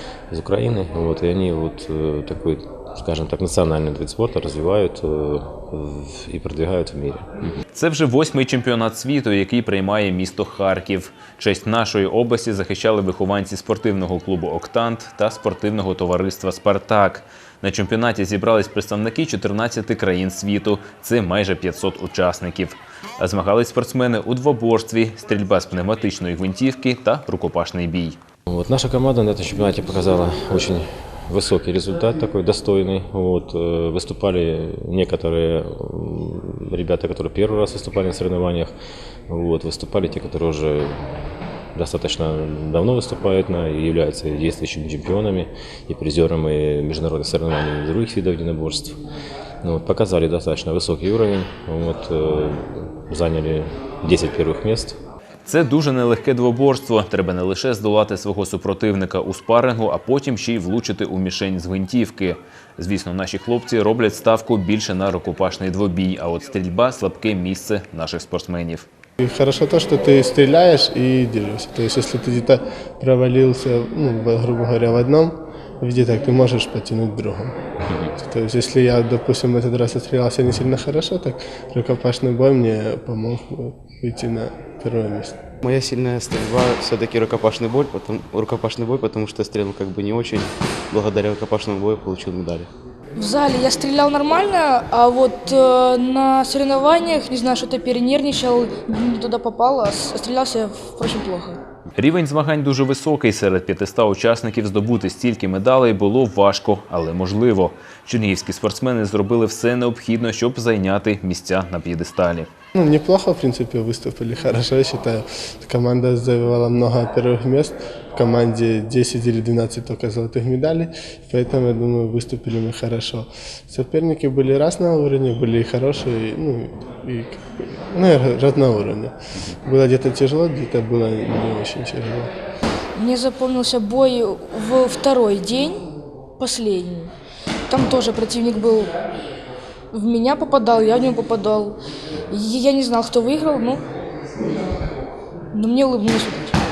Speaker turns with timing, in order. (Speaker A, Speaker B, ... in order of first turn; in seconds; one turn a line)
Speaker A: 0.3-7.3
Speaker B: 7.7-28.2
Speaker A: 28.5-38.7
Speaker A: 39.3-41.0
Speaker A: 41.7-49.0
Speaker A: 49.6-55.0
Speaker B: 55.5-68.9
Speaker C: 69.2-85.3
Speaker D: 85.6-92.7
Speaker E: 93.2-101.6
Speaker B: 102.0-112.5
Speaker C: 112.7-132.3
Speaker E: 132.9-135.8
Speaker E: 136.4-137.1
Speaker E: 137.7-138.9
Speaker E: 139.9-141.8
Speaker E: 142.3-143.8
Speaker E: 145.5-146.5